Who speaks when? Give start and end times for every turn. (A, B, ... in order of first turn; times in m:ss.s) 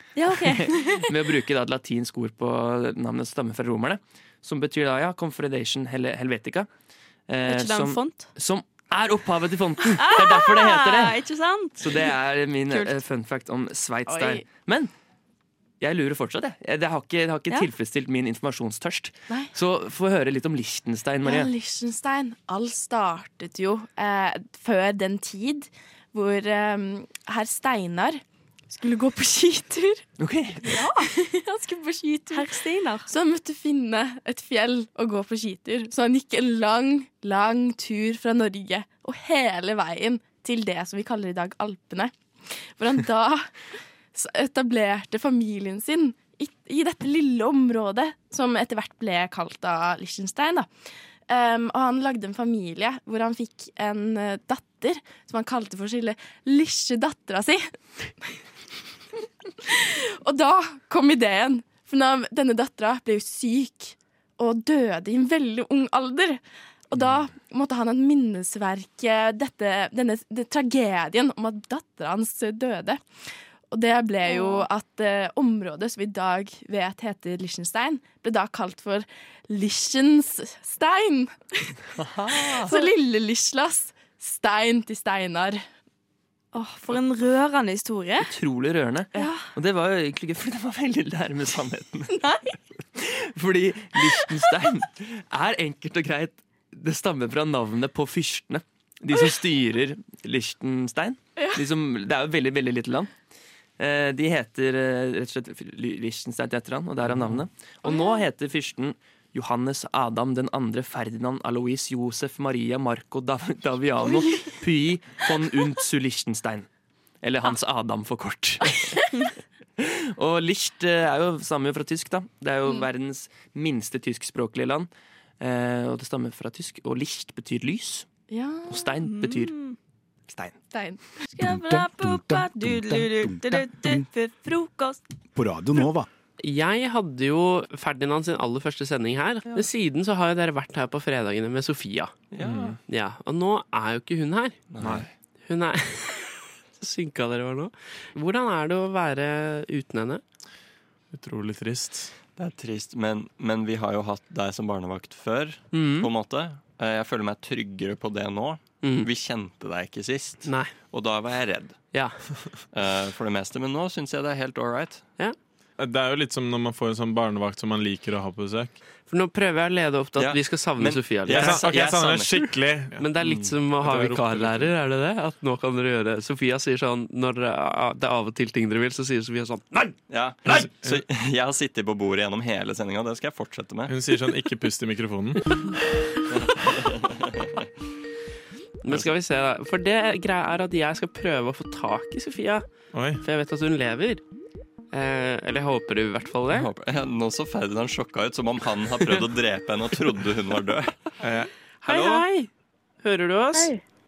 0:00.1-0:01.0 A
0:01.1-0:06.7 B
0:07.3-0:11.1 B
0:07.5-0:08.3 A
0:10.0-0:12.1 A
0:11.8-0:14.9 B
0:12.7-0:12.9 A
0:14.1-0:14.5 C
0:15.8-0:21.5 B
0:21.2-0:30.0 C
0:30.2-0:30.6 B
0:30.6-0:31.1 A
0:30.7-0:32.5 C
0:32.3-0:33.1 A
0:33.1-0:58.4 C
0:59.7-1:21.8 C
1:14.3-1:14.6 A
1:22.3-1:25.6 C
1:22.4-1:22.8 B
1:26.5-1:28.3 A
1:28.2-1:32.1 B
1:29.1-1:29.5 A
1:33.0-1:43.1 B
1:43.8-1:56.7 B
1:47.8-1:48.2 C
1:57.2-1:58.7 B
1:59.8-2:04.9 B
2:05.4-2:08.1 B
2:08.3-2:09.0 C
2:08.7-2:09.6 B
2:09.0-2:09.8 A
2:10.3-2:10.6 B
2:10.7-2:11.1 C
2:11.3-2:15.0 A
2:11.4-2:14.0 D
2:15.4-2:16.1 D
2:16.4-2:22.1 E
2:22.3-2:22.8 F
2:22.4-2:22.8 G
2:22.9-2:24.6 E
2:24.7-2:25.1 F
2:24.8-2:25.0 G
2:25.5-2:30.2 E
2:31.1-2:32.1 G
2:32.4-2:41.9 F
2:35.7-2:36.1 E
2:38.8-2:39.1 E
2:40.4-2:40.7 E
2:41.9-2:42.3 E
2:42.7-2:45.1 F
2:45.8-2:48.8 G
2:49.1-2:59.9 E
2:50.2-2:52.3 F
2:51.3-2:53.3 G
2:53.8-2:54.7 G
3:00.1-3:03.9 F
3:00.6-3:01.0 G
3:03.9-3:05.4 G
3:08.8-3:14.2 E
3:12.9-3:13.2 G
3:14.9-3:16.7 E
3:16.5-3:21.0 F
3:21.2-3:21.5 G
3:21.8-3:22.5 E
3:23.0-3:23.7 E